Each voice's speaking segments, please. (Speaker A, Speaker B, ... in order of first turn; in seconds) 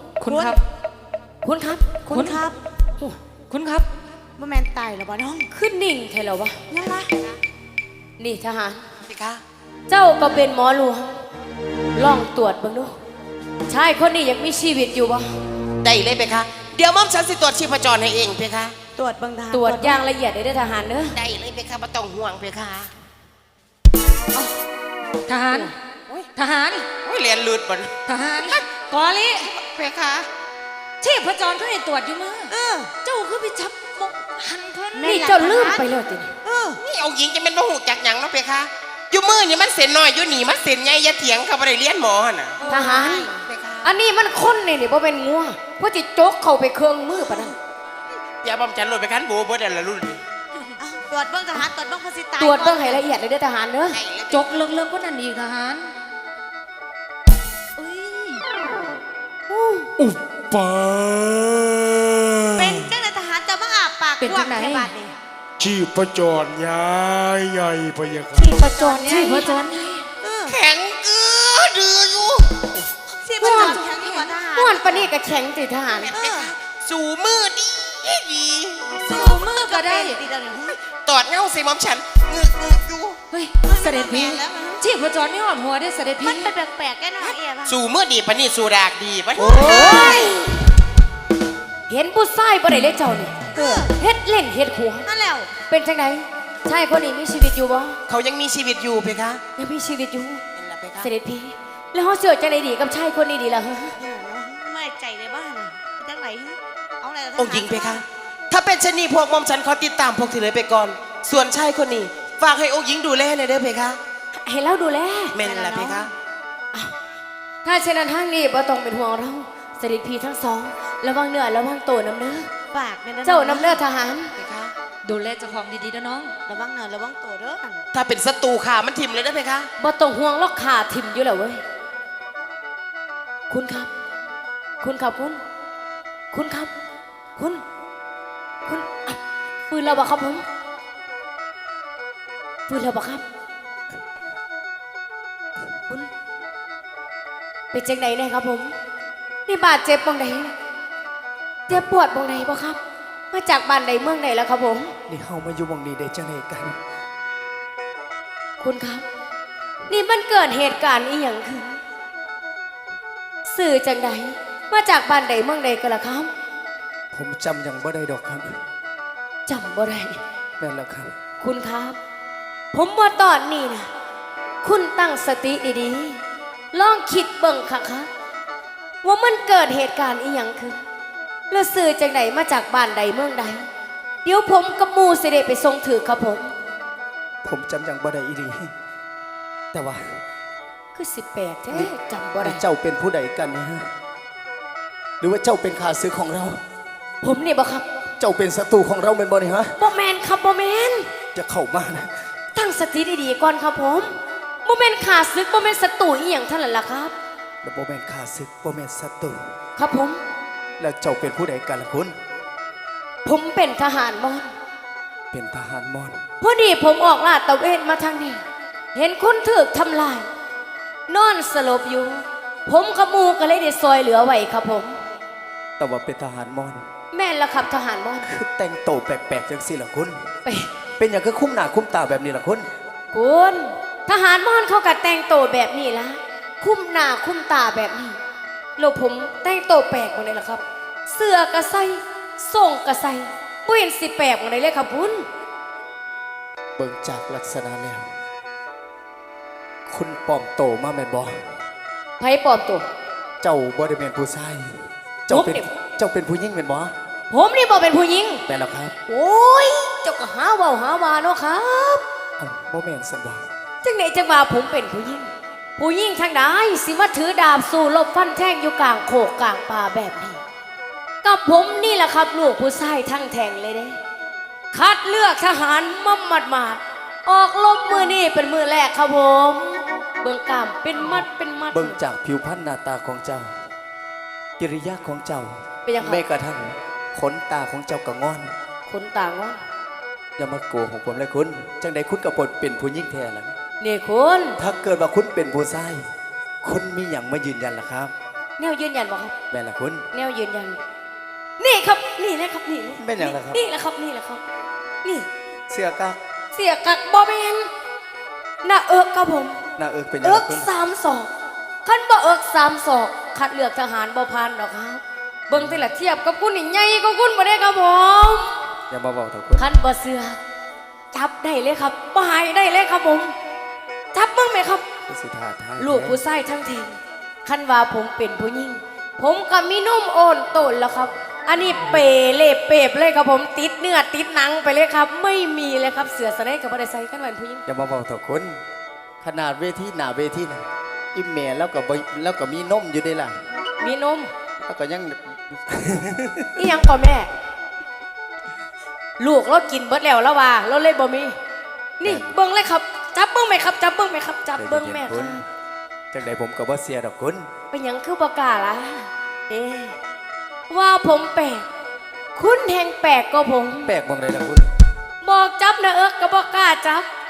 Speaker A: 0.2-0.6, 3.5-3.9, 25.3-25.7, 26.4-26.9, 28.1-29.5, 31.0-32.5, 33.0-35.0, 54.3-55.9, 60.0-62.8, 64.3-64.9, 65.6-70.0, 79.3-80.1, 83.3-86.4, 125.1-126.3
Speaker B: 0.2-0.6, 2.1-2.6, 4.4-5.5, 6.7-7.2, 18.9-20.0, 32.5-33.0, 34.9-35.8, 36.4-36.8, 42.6-43.9, 50.8-53.0, 57.8-58.4, 62.6-65.2, 68.6-69.5, 70.2-70.6, 73.1-75.1, 76.1-76.5, 79.0-80.8, 83.7-84.8, 86.2-87.8, 89.5-90.4, 93.6-93.9, 95.1-95.5, 104.0-108.0, 115.4-116.1, 122.7-123.8, 126.5-127.8
Speaker C: 1.4-2.1, 5.5-6.6, 8.2-8.8, 9.9-11.2, 11.9-12.9, 13.7-15.3, 19.5-21.2, 35.0-36.3, 42.7-43.3, 43.8-47.5, 52.4-54.0, 59.5-59.9, 68.4-69.5, 73.4-73.8, 74.5-76.1, 89.4-90.5, 91.9-95.1, 95.7-98.0, 99.6-100.4, 101.0-104.0, 114.3-115.4, 117.6-122.5, 123.2-124.3, 129.8-131.6, 133.5-133.9, 134.8-135.4, 136.3-136.7, 137.4-137.6, 138.7-139.2, 139.7-140.4, 142.7-143.2, 147.7-148.7, 149.5-150.5, 151.7-152.8, 153.3-154.9, 158.6-159.1, 159.9-161.8, 163.4-166.3, 169.5-170.2, 171.4-172.0, 172.7-173.9, 174.6-178.1, 179.0-180.8, 181.5-183.7, 184.2-186.5, 190.9-192.6, 197.2-197.8, 199.8-201.1, 202.5-204.1, 204.7-207.1, 209.8-210.2, 213.2-214.5, 216.4-218.4, 218.9-220.3, 221.1-225.0, 227.1-228.3, 230.4-230.8, 233.1-238.2, 238.8-245.3, 252.2-252.8, 255.3-255.7, 257.3-258.4, 259.1-262.0, 263.8-270.4, 271.2-274.0, 274.7-282.0, 285.9-286.2, 288.9-289.6, 293.8-294.6, 298.6-299.4, 300.1-300.8, 301.6-304.4, 306.5-307.7, 308.6-309.6, 310.2-311.3, 311.9-318.6, 319.6-320.4, 321.1-323.3, 324.1-324.9, 325.8-337.6, 343.8-344.3, 346.6-347.3, 349.2-351.4, 352.0-355.4, 357.7-360.0, 360.7-361.7, 362.4-363.9, 365.2-367.1
Speaker D: 9.1-9.4, 15.8-18.8, 21.1-22.9, 27.0-28.0, 29.6-30.3, 36.8-42.6, 48.4-50.2, 53.9-54.5, 70.5-72.6, 76.1-79.0, 80.8-83.2, 87.7-90.2, 98.1-99.4, 100.6-101.1, 107.4-114.0, 115.3-116.1, 124.4-124.7, 127.9-129.7
Speaker E: 155.1-156.8, 167.1-168.5, 170.6-171.1, 187.4-188.7, 189.7-190.2, 191.7-193.9, 195.2-196.6, 198.2-199.7, 201.3-202.2, 207.6-209.5, 210.8-212.2, 215.3-216.2, 225.8-226.9, 228.2-230.2, 231.0-232.7, 246.8-248.1, 249.9-251.4, 253.4-254.8, 255.3-256.9, 258.5-258.9, 262.4-263.4, 281.7-283.5, 284.6-288.5, 290.4-293.5, 294.6-296.0, 296.6-298.1, 299.5-300.1, 303.0-303.6, 305.7-306.2, 309.8-310.7, 315.5-315.9, 318.9-319.7, 325.1-326.2, 337.7-338.6, 339.2-343.4, 344.6-346.7, 352.0-352.4, 354.6-355.4, 356.1-357.5, 363.9-364.7